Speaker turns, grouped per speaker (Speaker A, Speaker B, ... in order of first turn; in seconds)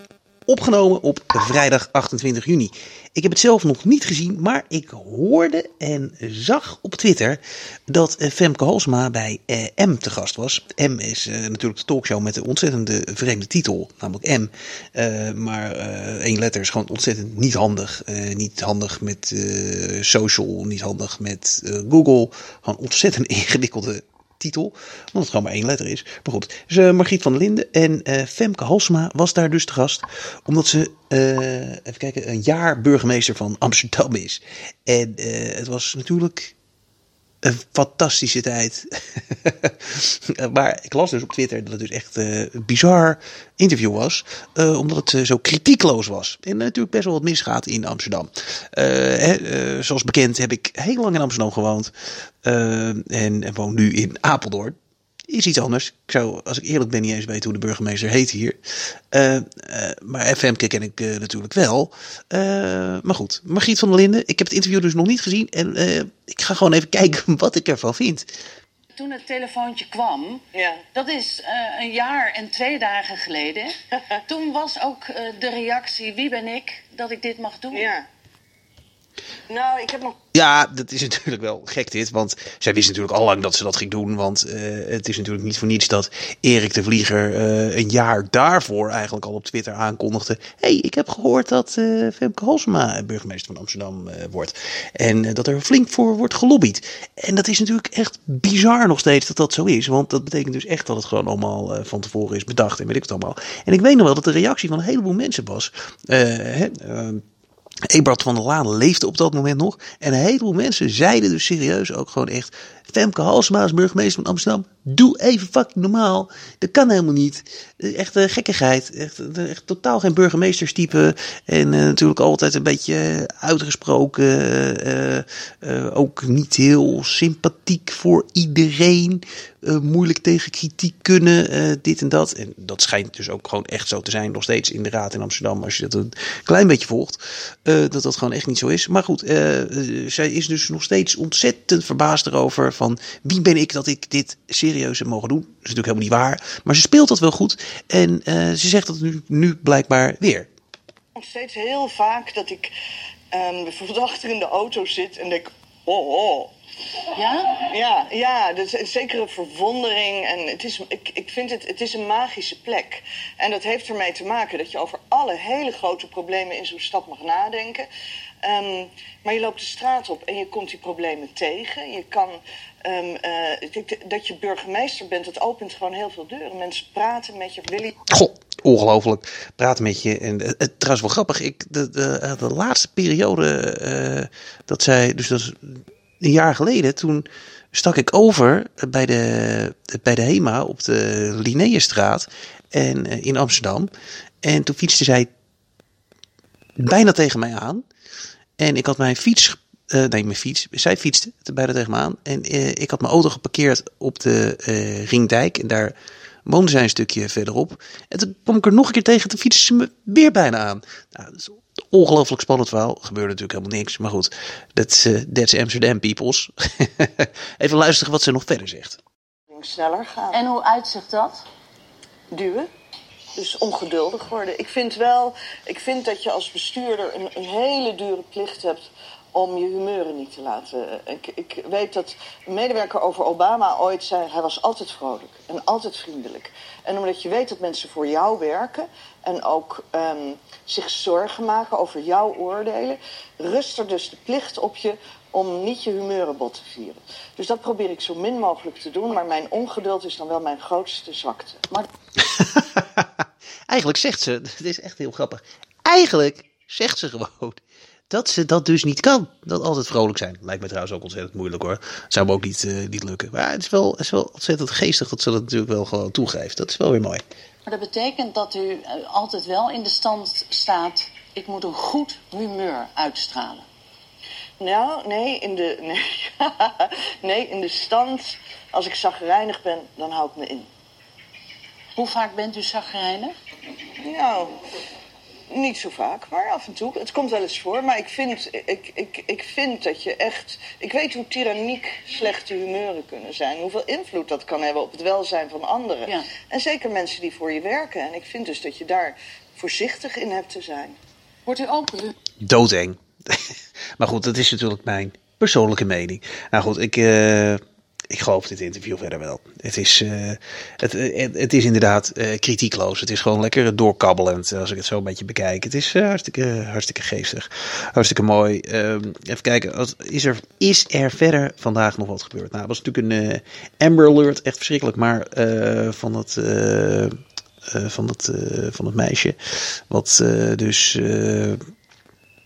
Speaker A: 0.5-36.5, 37.4-51.9, 52.4-54.8, 55.3-58.6, 59.1-68.3, 80.3-107.2, 107.9-150.5, 178.1-193.9, 194.4-195.3, 196.8-197.8, 198.6-205.9, 206.4-219.0, 252.2-253.1, 253.7-267.2, 302.4-303.4, 304.0-327.1, 327.7-331.6
Speaker B: 68.9-77.9, 157.1-157.6, 220.3-221.4, 267.7-273.7, 281.9-283.3, 301.4-302.2
Speaker C: 70.5-70.8, 77.7-78.0, 79.5-80.2, 151.2-152.7, 153.3-156.5, 157.6-167.9, 168.4-178.0, 219.5-220.4, 222.3-222.7, 223.3-251.8, 274.6-280.7, 284.0-284.6, 285.5-301.0